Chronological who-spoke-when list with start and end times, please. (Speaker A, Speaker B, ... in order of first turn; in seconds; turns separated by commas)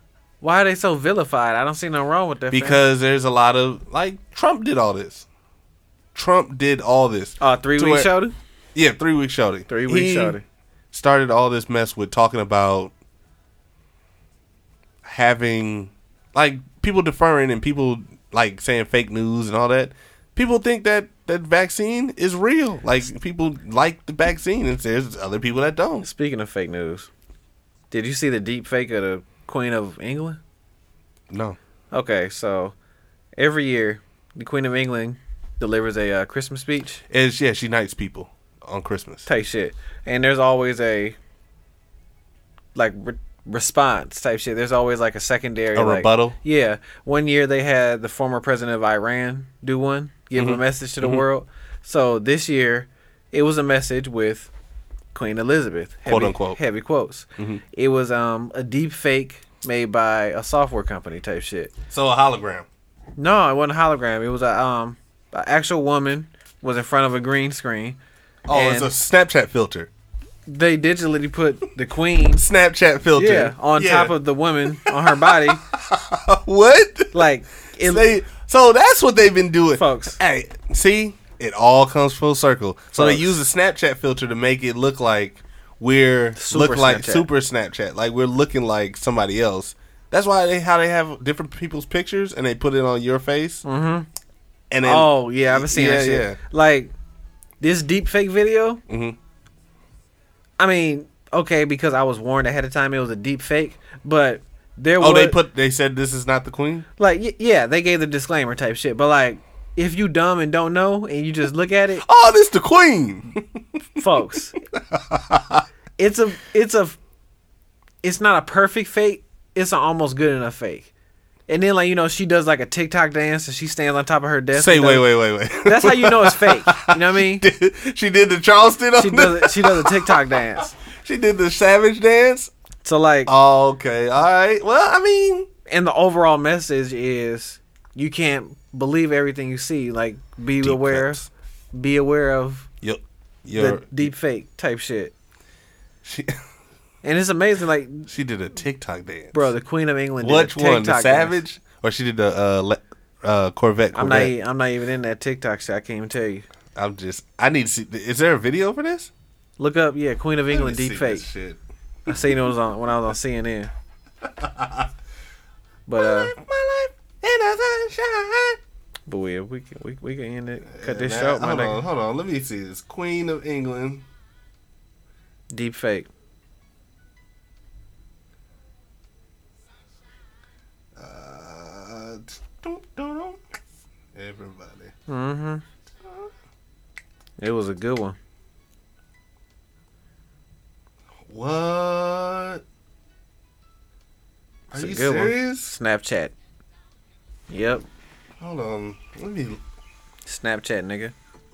Speaker A: 0.4-2.8, Speaker B: 2.5-5.2, Speaker B: 6.1-8.1, Speaker A: 7.4-8.3, Speaker B: 8.7-10.4, Speaker A: 9.7-10.4, Speaker B: 10.9-12.9, Speaker B: 15.0-26.1, Speaker A: 26.0-27.1, Speaker A: 27.9-30.4, Speaker B: 31.3-31.6, Speaker A: 31.9-32.7, Speaker A: 33.4-37.0, Speaker B: 37.1-39.3, Speaker A: 39.2-41.1, Speaker A: 42.7-54.5, Speaker B: 45.7-46.4, Speaker B: 50.4-51.2, Speaker A: 55.1-61.7, Speaker B: 56.0-56.6, Speaker B: 61.9-62.6, Speaker A: 63.2-68.0, Speaker B: 68.5-69.9, Speaker A: 68.5-68.9, Speaker A: 70.5-72.4, Speaker B: 72.4-74.2, Speaker A: 73.2-75.6, Speaker B: 74.7-77.2, Speaker A: 77.1-78.1, Speaker B: 77.8-93.6, Speaker A: 79.7-80.2, Speaker A: 82.9-83.3, Speaker A: 86.3-87.2, Speaker A: 93.6-94.1, Speaker B: 94.7-96.4, Speaker A: 94.8-96.9, Speaker A: 97.6-98.8, Speaker B: 98.9-99.2, Speaker A: 100.6-105.4, Speaker B: 105.0-106.9, Speaker A: 107.0-112.0, Speaker B: 112.0-113.4, Speaker A: 114.0-114.5, Speaker B: 114.9-115.6, Speaker A: 116.0-117.0, Speaker A: 118.0-120.9, Speaker A: 121.5-125.0, Speaker B: 124.5-130.3, Speaker A: 125.6-127.5, Speaker A: 129.0-130.7, Speaker B: 130.8-132.5, Speaker A: 132.8-133.3, Speaker B: 133.3-135.5, Speaker A: 135.7-141.2, Speaker B: 140.6-141.3, Speaker A: 141.7-142.7, Speaker B: 142.8-143.9, Speaker A: 143.5-145.1, Speaker B: 146.0-146.4, Speaker A: 147.0-148.1, Speaker B: 148.1-149.5, Speaker A: 149.3-151.4, Speaker B: 150.2-154.3, Speaker A: 153.9-156.4, Speaker B: 156.7-159.1, Speaker A: 159.6-161.2, Speaker B: 160.5-162.2, Speaker A: 162.1-163.7, Speaker B: 164.4-164.9, Speaker A: 165.9-166.3, Speaker B: 166.0-168.6, Speaker A: 169.1-171.8, Speaker B: 170.7-174.0, Speaker A: 175.5-176.1, Speaker B: 180.9-183.4, Speaker B: 184.1-184.9, Speaker A: 185.1-185.6, Speaker A: 187.4-188.2, Speaker B: 191.3-192.6, Speaker B: 194.7-195.8, Speaker A: 194.7-196.3, Speaker A: 197.5-197.8, Speaker B: 198.4-199.6, Speaker A: 200.2-201.1